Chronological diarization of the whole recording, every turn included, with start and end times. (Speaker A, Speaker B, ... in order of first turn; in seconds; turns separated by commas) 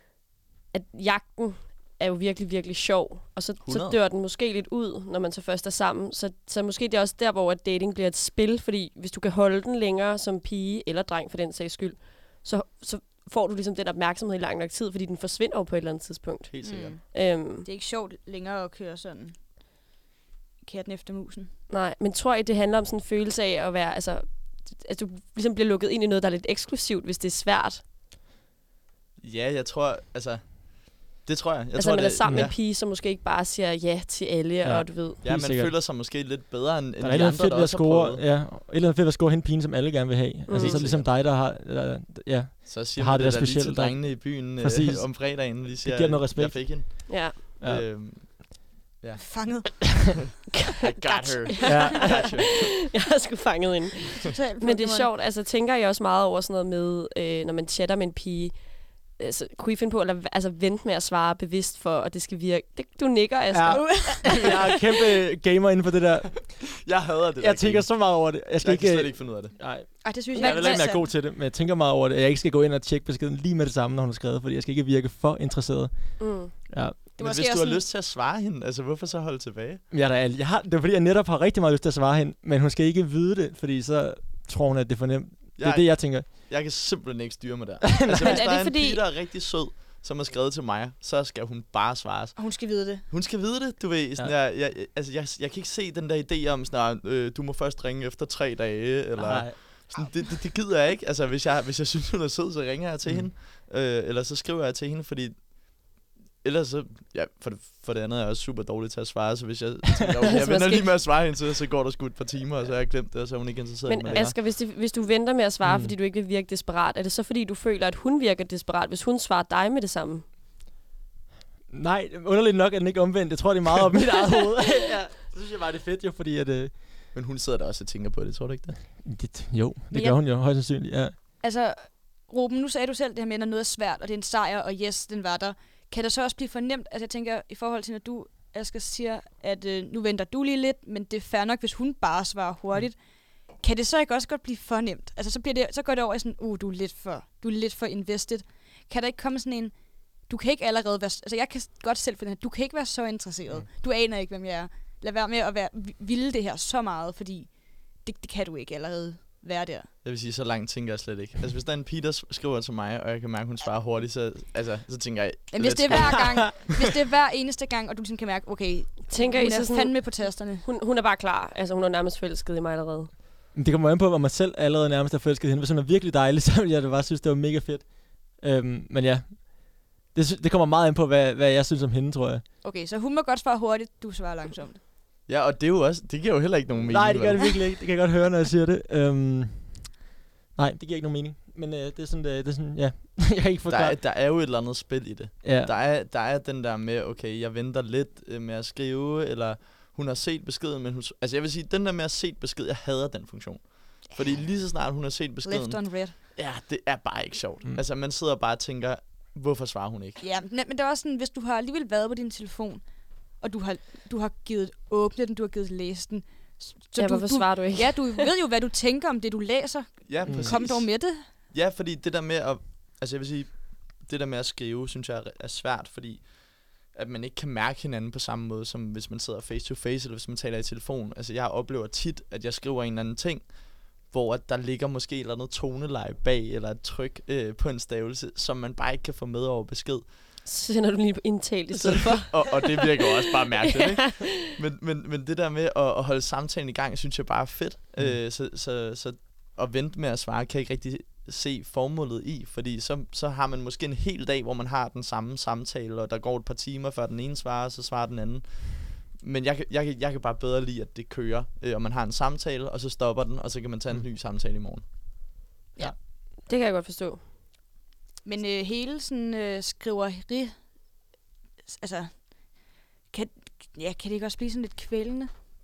Speaker A: 0.7-17.7, Speaker B: 3.6-4.0, Speaker B: 16.5-17.0, Speaker C: 16.6-19.4, Speaker C: 20.6-21.5, Speaker A: 21.7-27.8, Speaker B: 29.2-32.5, Speaker A: 31.7-35.2, Speaker D: 34.6-35.7, Speaker B: 35.2-38.3, Speaker D: 37.0-47.9, Speaker A: 40.5-40.8, Speaker B: 40.5-41.2, Speaker B: 42.6-50.1, Speaker A: 47.1-47.4, Speaker C: 49.2-50.2, Speaker B: 50.7-52.7, Speaker A: 51.0-64.5, Speaker D: 51.7-52.3, Speaker C: 54.2-55.1, Speaker D: 63.5-66.7, Speaker C: 63.7-64.6, Speaker B: 66.8-69.7, Speaker D: 67.4-77.0, Speaker C: 70.0-71.1, Speaker A: 70.3-70.7, Speaker A: 76.2-76.5, Speaker C: 77.2-77.8, Speaker B: 77.2-79.8, Speaker D: 79.9-86.3, Speaker B: 85.6-105.5, Speaker D: 87.9-88.4, Speaker A: 88.2-89.0, Speaker C: 92.3-93.1, Speaker D: 99.2-99.6, Speaker B: 106.4-114.3, Speaker A: 110.2-111.0, Speaker A: 113.8-120.2, Speaker D: 115.6-115.9, Speaker D: 121.7-126.7, Speaker B: 127.1-128.8, Speaker D: 129.0-131.2, Speaker C: 129.9-130.2, Speaker C: 131.4-159.9, Speaker B: 160.0-166.7, Speaker C: 165.5-170.7, Speaker A: 169.1-173.1, Speaker D: 173.5-182.4, Speaker C: 182.6-184.8, Speaker B: 185.3-187.6, Speaker D: 186.9-189.9, Speaker D: 190.6-194.0, Speaker B: 193.7-210.2, Speaker D: 195.4-195.7, Speaker C: 204.1-204.4, Speaker C: 205.4-206.1, Speaker C: 210.2-221.3, Speaker A: 217.0-218.2, Speaker B: 220.1-240.1, Speaker D: 220.3-220.5, Speaker A: 240.4-242.8, Speaker B: 241.7-264.8, Speaker A: 244.0-244.3, Speaker A: 266.4-267.2, Speaker C: 268.2-270.6, Speaker C: 271.6-275.3